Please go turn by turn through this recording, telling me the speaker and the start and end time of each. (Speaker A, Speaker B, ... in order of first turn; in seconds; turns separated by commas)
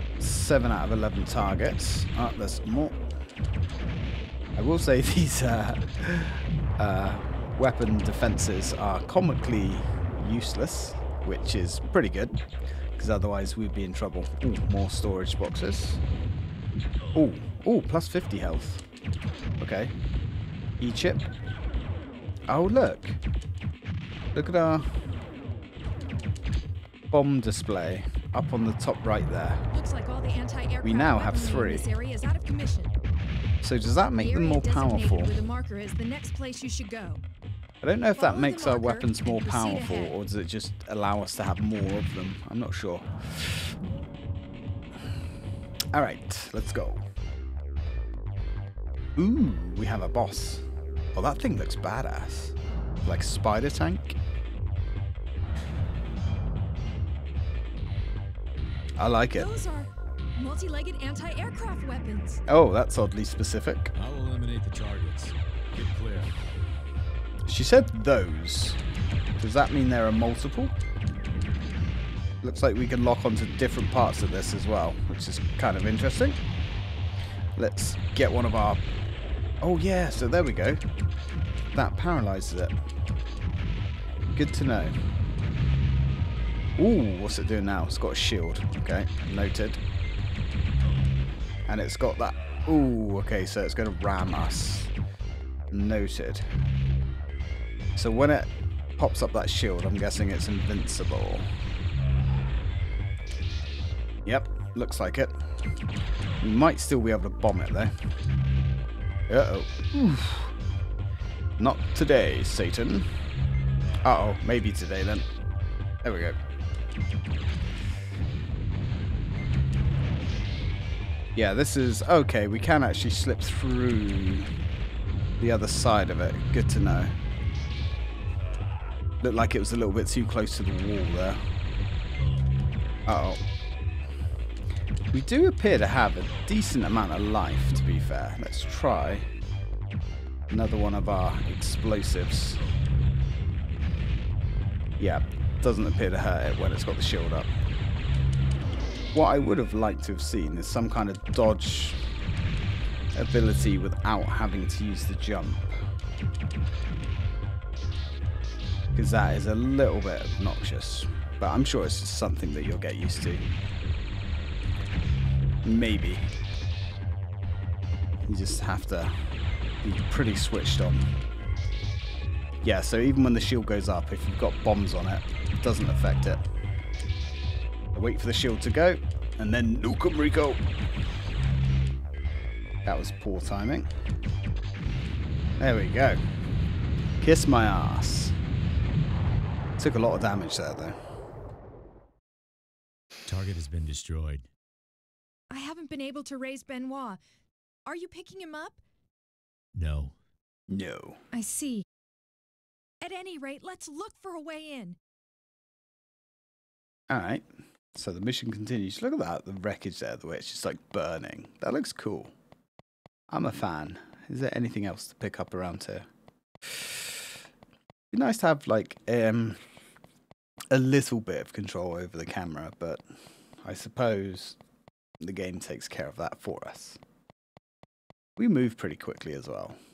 Speaker A: 0.2-3.0, Speaker A: 4.6-12.4, Speaker A: 13.0-16.0, Speaker A: 17.1-18.8, Speaker A: 19.6-19.9, Speaker A: 20.8-21.2, Speaker A: 22.5-23.2, Speaker A: 24.3-25.0, Speaker A: 27.1-29.7, Speaker B: 29.7-33.0, Speaker A: 30.8-31.9, Speaker A: 33.6-35.3, Speaker B: 34.2-37.2, Speaker A: 37.8-43.6, Speaker B: 38.1-40.1, Speaker A: 45.9-47.0, Speaker A: 49.1-54.1, Speaker A: 59.0-59.5, Speaker B: 59.3-62.4, Speaker A: 62.5-63.9, Speaker C: 64.0-66.3, Speaker A: 67.5-68.8, Speaker A: 69.4-70.7, Speaker A: 72.4-76.4, Speaker A: 77.6-78.8, Speaker A: 79.6-80.8, Speaker A: 81.7-82.7, Speaker A: 84.3-85.0, Speaker A: 86.8-89.8, Speaker A: 91.7-94.9, Speaker A: 95.7-96.5, Speaker A: 98.0-101.5, Speaker A: 104.2-105.3, Speaker A: 106.4-107.9, Speaker A: 109.3-110.5, Speaker A: 111.6-113.1, Speaker A: 114.0-115.3, Speaker A: 116.0-116.4, Speaker A: 121.3-124.5, Speaker A: 125.4-127.1, Speaker A: 129.2-131.4, Speaker A: 133.1-133.4, Speaker A: 135.1-139.3, Speaker A: 140.5-142.6, Speaker A: 145.0-147.5, Speaker A: 149.1-152.0, Speaker A: 153.1-155.8, Speaker A: 158.9-163.5, Speaker A: 165.6-166.3, Speaker A: 168.3-169.1, Speaker A: 169.8-171.1, Speaker A: 172.6-176.4, Speaker A: 177.9-180.6, Speaker A: 182.8-183.9, Speaker A: 185.6-186.2, Speaker A: 187.2-188.3, Speaker A: 189.8-191.0, Speaker C: 193.2-194.4, Speaker B: 195.5-197.2, Speaker B: 197.8-198.8, Speaker C: 199.7-200.2, Speaker A: 200.7-201.2, Speaker B: 201.3-201.8, Speaker B: 203.0-205.0, Speaker A: 207.1-207.4, Speaker A: 207.9-212.3, Speaker A: 213.3-216.1, Speaker A: 216.6-217.2, Speaker A: 218.1-219.6, Speaker A: 220.7-223.0, Speaker A: 223.6-224.6, Speaker A: 225.2-227.0, Speaker A: 228.4-229.8